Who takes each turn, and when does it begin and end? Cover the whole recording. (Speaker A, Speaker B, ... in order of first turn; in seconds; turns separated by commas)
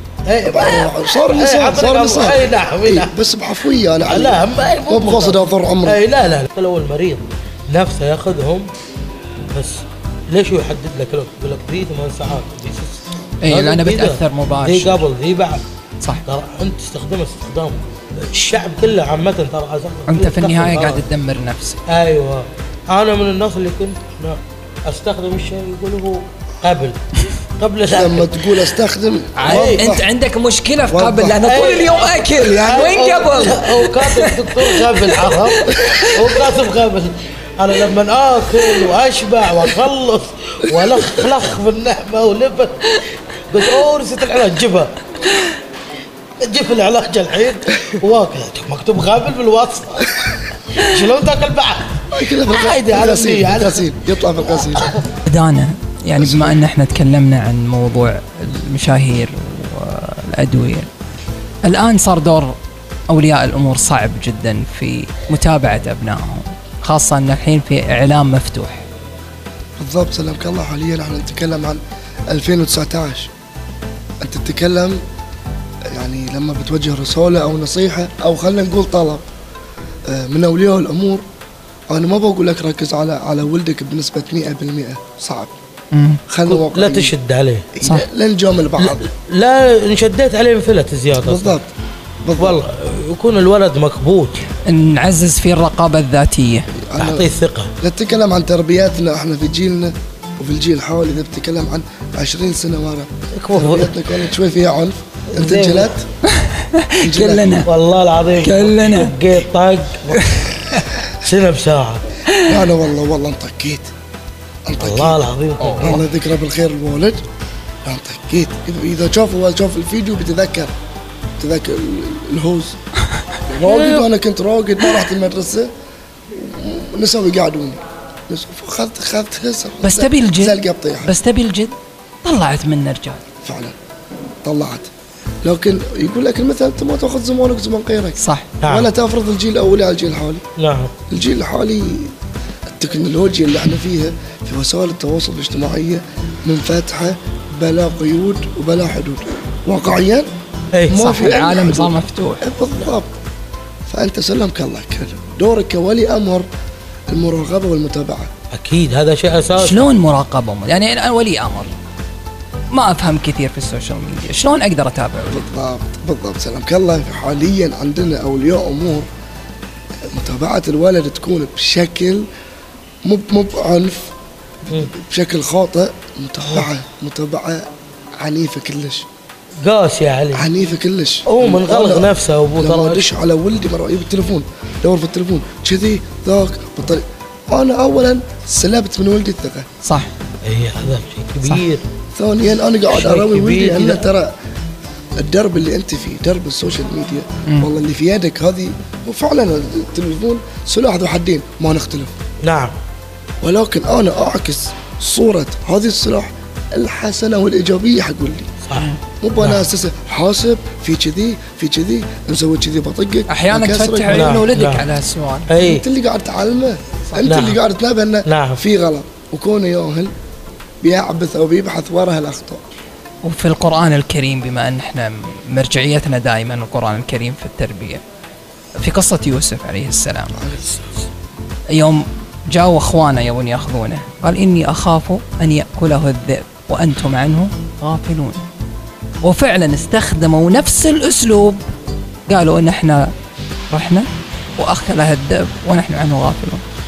Speaker A: 0.3-3.1, Speaker B: 0.4-6.0, Speaker A: 4.0-8.7, Speaker A: 9.5-15.6, Speaker C: 13.4-15.0, Speaker A: 16.2-21.0, Speaker C: 20.1-21.8, Speaker A: 21.9-27.0, Speaker A: 27.6-28.6, Speaker B: 27.9-30.1, Speaker C: 29.4-36.3, Speaker A: 29.4-29.9, Speaker B: 30.9-31.4, Speaker A: 31.4-45.0, Speaker A: 46.4-53.9, Speaker B: 52.1-54.9, Speaker A: 54.5-55.0, Speaker C: 55.2-60.9, Speaker B: 56.2-56.6, Speaker C: 61.6-62.5, Speaker C: 63.1-68.8, Speaker B: 69.8-73.3, Speaker B: 74.2-75.0, Speaker B: 75.9-79.2, Speaker B: 80.1-81.2, Speaker B: 81.9-85.5, Speaker C: 85.9-86.2, Speaker B: 86.3-87.1, Speaker A: 86.5-87.7, Speaker B: 87.7-89.0, Speaker A: 88.8-91.5, Speaker B: 91.2-91.7, Speaker B: 92.2-92.6, Speaker A: 92.4-94.4, Speaker C: 94.7-96.7, Speaker B: 96.7-97.3, Speaker A: 97.0-97.7, Speaker B: 97.8-106.0, Speaker A: 103.3-104.0, Speaker A: 105.3-105.9, Speaker C: 106.3-107.7, Speaker B: 107.0-107.6, Speaker A: 107.7-112.0, Speaker C: 108.4-109.2, Speaker C: 110.1-110.9, Speaker C: 112.3-112.6, Speaker B: 112.4-113.9, Speaker B: 114.7-115.2, Speaker A: 114.8-116.0, Speaker C: 115.6-116.0, Speaker B: 115.8-117.2, Speaker B: 117.8-120.7, Speaker B: 121.4-122.8, Speaker B: 123.5-125.7, Speaker A: 123.6-124.1, Speaker B: 126.3-131.1, Speaker C: 129.8-133.2, Speaker B: 133.4-133.7, Speaker B: 134.4-134.9, Speaker B: 135.4-140.4, Speaker C: 138.2-138.5, Speaker A: 138.6-138.9, Speaker A: 140.6-140.9, Speaker B: 141.1-142.1, Speaker B: 142.7-150.3, Speaker A: 150.7-151.0, Speaker B: 150.9-153.1, Speaker C: 150.9-152.5, Speaker B: 153.9-156.5, Speaker B: 157.1-158.3, Speaker A: 158.5-159.9, Speaker C: 159.6-161.7, Speaker C: 162.7-165.4, Speaker B: 165.3-169.1, Speaker B: 170.1-172.3, Speaker B: 173.1-174.1, Speaker B: 174.9-177.7, Speaker B: 178.2-179.1, Speaker A: 179.6-180.5, Speaker B: 180.3-189.7, Speaker A: 181.3-183.1, Speaker C: 189.8-190.1, Speaker A: 190.4-191.8, Speaker B: 192.1-194.3, Speaker A: 192.9-194.1, Speaker B: 195.2-202.1, Speaker A: 202.4-202.7, Speaker B: 203.4-208.5, Speaker A: 208.6-209.7, Speaker C: 208.7-209.0, Speaker B: 209.2-214.4, Speaker C: 213.3-215.5, Speaker A: 214.1-214.9, Speaker A: 215.5-215.8, Speaker B: 215.6-220.1, Speaker C: 217.1-217.3, Speaker A: 217.2-217.6, Speaker A: 218.2-218.6, Speaker B: 220.8-222.6, Speaker C: 223.2-228.0, Speaker C: 228.8-230.4, Speaker B: 230.3-230.8, Speaker C: 231.7-238.4, Speaker C: 239.2-241.6, Speaker C: 242.3-243.1, Speaker C: 243.7-246.6